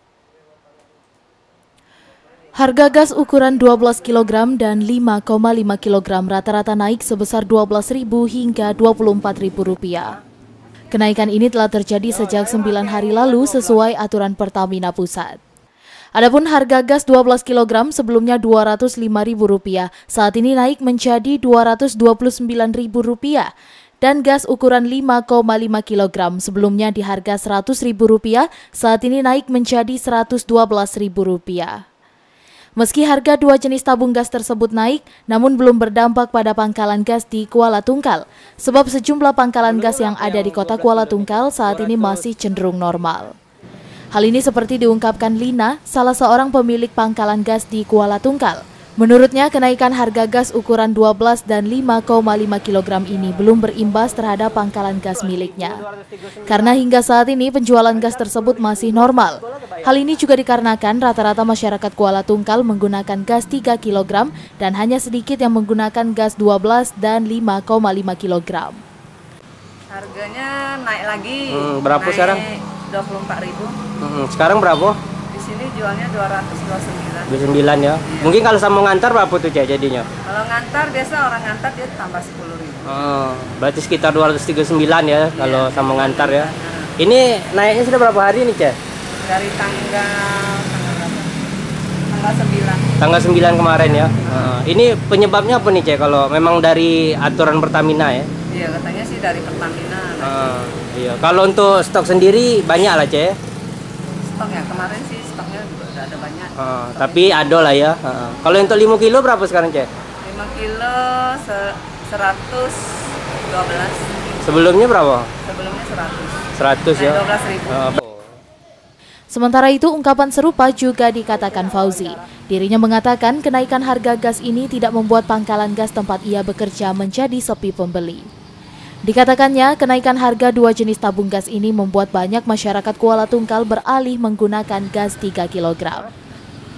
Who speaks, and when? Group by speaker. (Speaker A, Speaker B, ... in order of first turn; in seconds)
Speaker A: 2.5-10.2, 10.9-15.4, 16.1-31.8, 32.8-43.4, 44.1-55.8, 56.4-68.8, 119.3-128.3, 129.1-136.1
Speaker B: 12.1-13.8, 39.6-42.2, 55.1-56.9, 57.9-60.0, 71.5-72.4, 74.0-75.0, 77.3-80.1, 82.8-88.8, 93.0-98.3, 100.2-103.4, 106.6-109.9, 114.4-115.3, 116.5-118.2, 121.3-122.2
Speaker C: 69.9-73.8, 75.3-77.4, 78.0-78.4, 80.2-83.0, 85.3-86.9, 89.2-91.3, 92.1-93.0, 93.7-94.5, 98.5-100.6, 104.3-107.4, 110.2-114.4, 115.4-118.0